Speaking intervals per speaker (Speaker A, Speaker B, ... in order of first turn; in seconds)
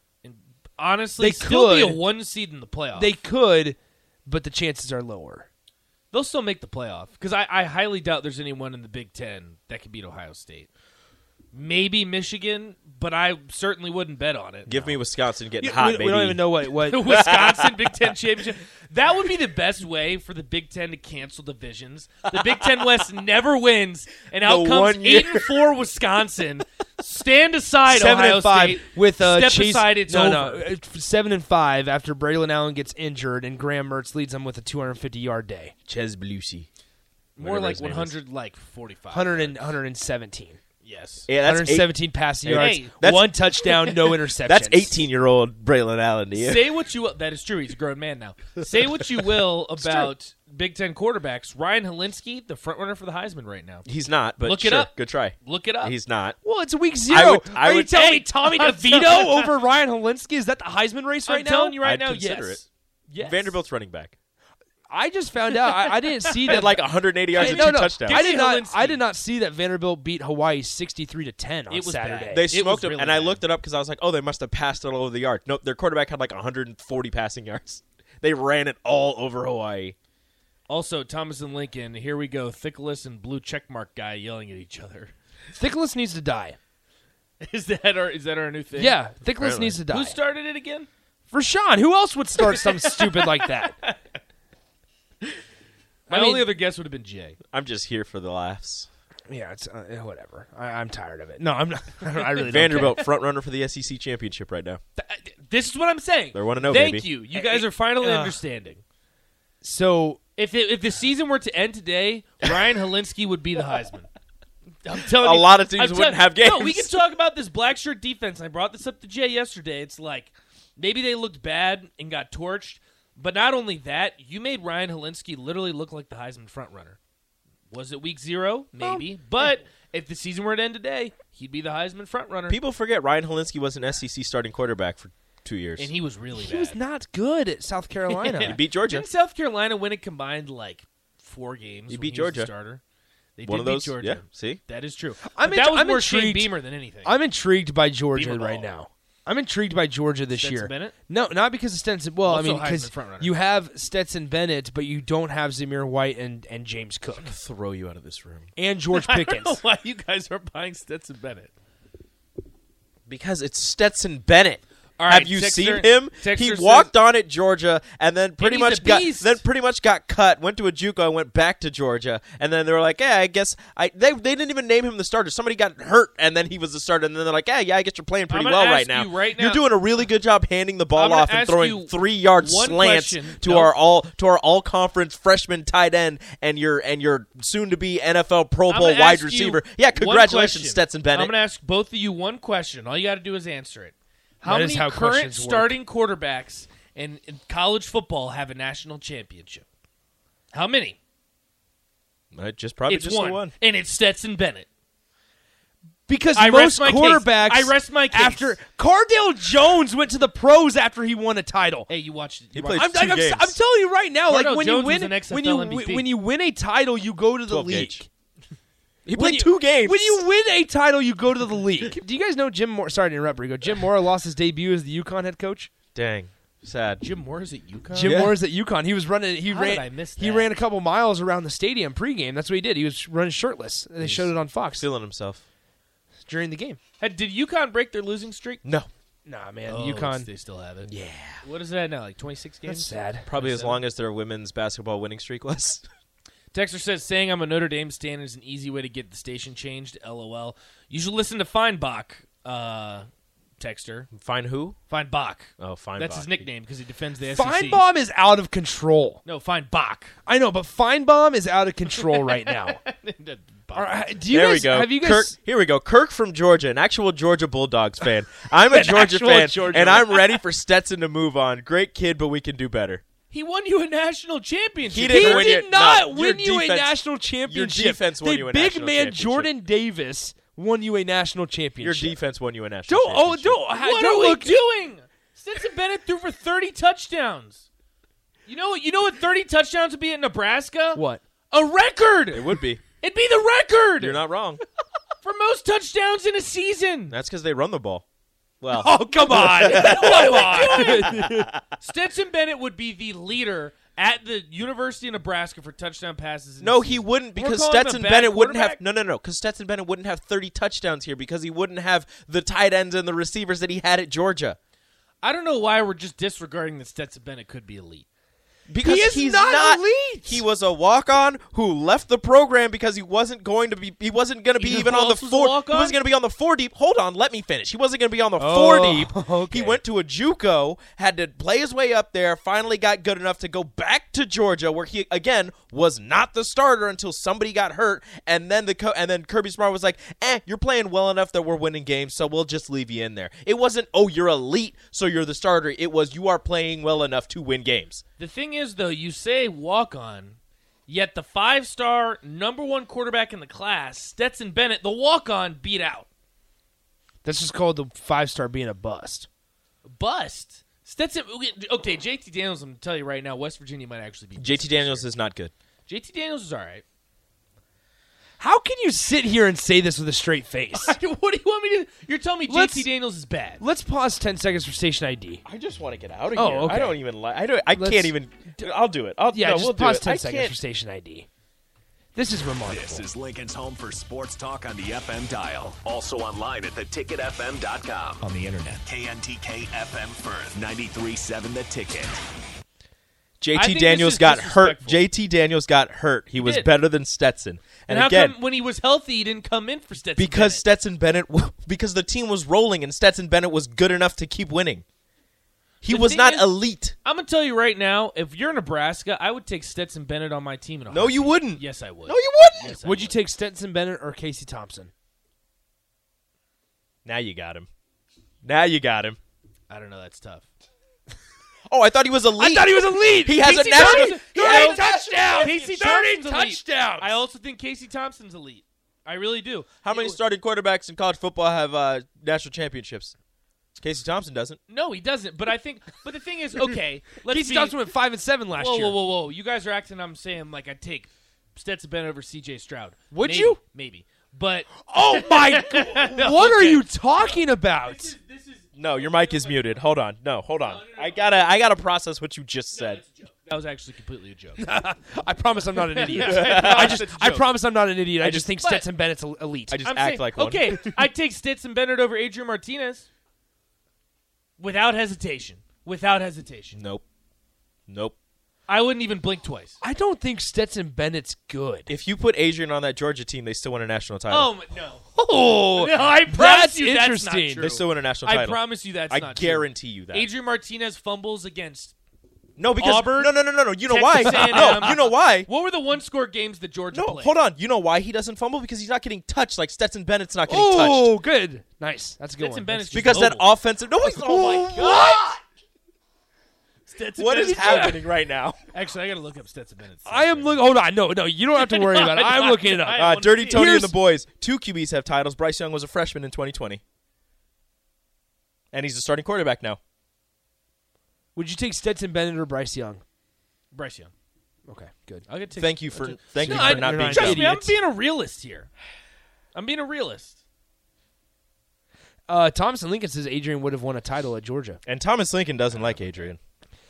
Speaker A: 0.2-3.1, 6.1-10.7, 11.5-15.0, 16.8-30.6, 37.4-39.6, 40.8-41.3, 42.5-42.9, 46.3-53.9, 54.4-55.9, 57.9-59.5, 61.2-63.6, 65.6-66.6, 67.3-69.0, 71.7-73.4, 80.7-85.1, 87.4-89.0, 89.9-90.9, 92.4-94.0, 96.1-97.4, 105.0-108.8, 110.4-114.1, 114.8-127.0, 127.7-132.6, 135.8-136.8, 138.1-142.8, 143.4-147.1, 148.1-148.7, 150.3-150.9, 152.2-153.3, 158.9-161.5, 165.0-166.9, 168.4-169.4, 178.3-179.6, 180.9-183.7, 188.7-199.6, 200.5-201.0, 202.9-204.7, 206.3-208.5, 211.9-212.9, 214.3-216.1, 227.0-228.2, 229.5-230.5, 237.0-238.6, 239.7-240.9, 241.4-243.8, 246.5-253.1, 253.6-254.1, 254.9-257.8, 259.2-260.1, 262.0-264.1, 273.3-275.6, 283.7-287.6, 288.4-294.2, 295.2-297.1, 299.4-301.2, 301.8-308.8, 315.2-318.1, 324.6-326.0, 348.2-356.1, 359.8-365.1, 365.9-366.8, 370.7-373.6, 393.5-395.0, 396.4-396.7, 397.9-400.6, 405.9-406.5, 407.0-413.1, 419.7-420.4, 423.4-430.2, 434.7-437.8, 438.5-449.6, 450.6-451.3, 452.7-454.7, 455.9-457.5, 459.8-463.1, 464.6-466.8, 468.7-469.8, 474.3-475.0, 475.7-481.9, 482.8-483.3, 483.9-487.4, 492.4-493.5, 494.2-495.2, 496.9-498.1, 498.7-500.6, 501.6-503.7, 513.7-514.1, 515.3-518.7, 519.5-520.4
Speaker B: 1.2-2.0, 3.0-5.5, 15.6-17.1, 27.9-35.7, 39.1-40.6, 41.4-45.0, 49.8-50.1, 56.4-61.8, 64.9-66.8, 67.3-72.4, 85.5-86.6, 88.8-90.2, 91.3-93.7, 96.1-96.5, 99.3-103.0, 107.5-108.3, 109.6-110.2, 128.8-129.1, 136.3-138.6, 145.3-146.5, 147.0-157.3, 158.6-159.6, 194.4-195.8, 206.1-211.9, 212.7-218.1, 219.1-225.7, 227.9-234.8, 236.2-236.8, 239.2-240.3, 242.7-243.3, 257.3-259.2, 260.2-262.8, 263.7-265.3, 268.7-270.2, 275.1-282.2, 282.9-284.6, 290.9-291.2, 298.7-301.5, 318.8-320.4, 328.4-329.8, 357.2-359.3, 368.4-371.0, 372.5-372.9, 373.6-375.4, 376.3-377.0, 377.7-378.7, 379.3-381.3, 382.1-383.0, 412.8-414.9, 422.4-427.2, 437.3-439.0, 443.1-443.6, 444.9-448.1, 454.6-459.8, 469.8-471.9, 475.1-477.7, 484.2-484.9, 490.5-493.3, 494.1-495.2, 500.1-503.9, 511.3-513.0, 514.7-515.2, 516.4-517.7, 522.3-524.8
Speaker C: 14.7-16.4, 17.0-17.7, 24.4-25.6, 35.9-36.7, 37.4-38.2, 41.3-43.4, 44.4-46.7, 53.9-56.4, 57.1-58.1, 61.8-62.6, 63.2-64.1, 66.4-68.3, 72.3-79.9, 89.4-89.8, 97.5-98.9, 102.4-104.8, 106.3-107.1, 115.2-116.9, 132.5-135.9, 138.4-139.1, 141.9-142.5, 143.4-144.6, 157.2-158.5, 163.1-191.3, 202.3-203.5, 212.5-213.6, 217.5-218.0, 219.1-220.2, 225.9-227.0, 228.0-228.4, 234.0-235.4, 238.6-238.9, 240.9-241.4, 243.2-245.8, 254.1-254.8, 255.6-256.4, 264.3-273.0, 274.9-279.5, 281.8-283.6, 292.3-292.8, 294.0-294.6, 297.1-298.0, 298.6-301.6, 306.6-314.6, 318.7-348.0, 364.4-365.5, 375.4-380.5, 393.4-398.4, 400.2-404.8, 405.8-406.9, 410.9-412.8, 417.0-417.7, 418.4-419.2, 421.7-425.5, 429.8-433.1, 433.8-434.6, 448.8-453.0, 456.1-457.1, 458.2-458.6, 459.7-460.9, 466.8-467.0, 467.9-468.1, 471.9-474.5, 477.6-480.3, 482.6-485.5, 486.9-491.1, 492.9-495.3, 497.2-498.6, 502.9-506.8, 508.7-509.8, 515.6-517.5, 524.9-526.4
Speaker D: 382.6-392.2